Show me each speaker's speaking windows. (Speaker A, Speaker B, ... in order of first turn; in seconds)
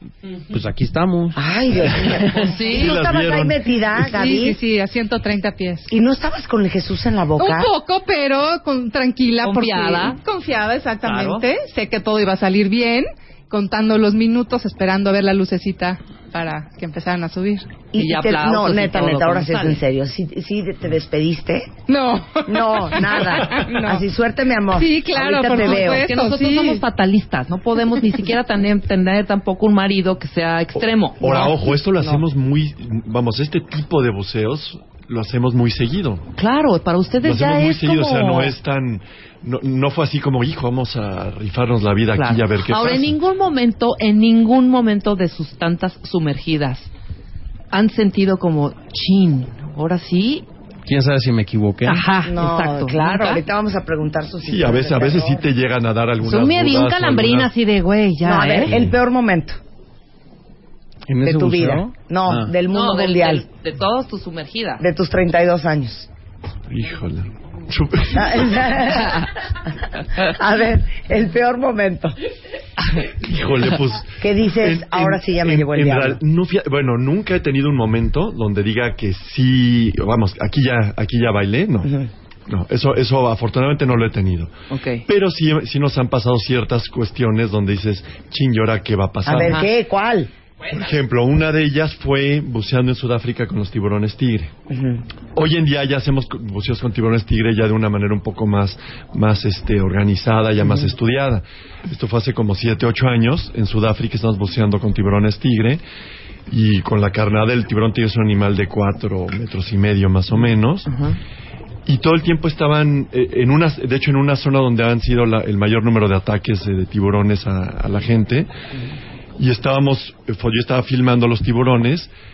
Speaker A: 0.5-2.3, 50.9-52.0, 61.1-62.5
Speaker B: 1.4-4.6, 5.9-7.7, 17.9-21.7, 22.5-26.1, 52.2-55.4, 58.2-59.6, 61.2-63.5, 64.8-66.1, 68.1-69.3, 70.2-72.2, 74.2-76.2, 89.3-90.3, 94.7-95.0
Speaker C: 2.4-3.0, 9.4-10.2, 11.0-11.5, 18.0-19.8, 25.6-31.6, 36.4-38.5, 42.2-46.9, 47.7-50.5, 51.9-53.4, 56.2-58.7, 62.7-64.8, 84.7-85.1, 89.3-89.7, 110.9-111.2
Speaker D: 2.6-3.7, 30.8-36.3, 37.2-43.2, 54.4-57.5, 66.7-68.8, 73.2-81.9, 82.5-84.5, 85.1-89.6, 90.7-94.5, 95.3-105.8, 106.5-110.9, 111.9-118.5, 119.4-122.1
Speaker E: 4.0-5.9, 7.4-17.7, 21.9-24.0, 24.7-26.8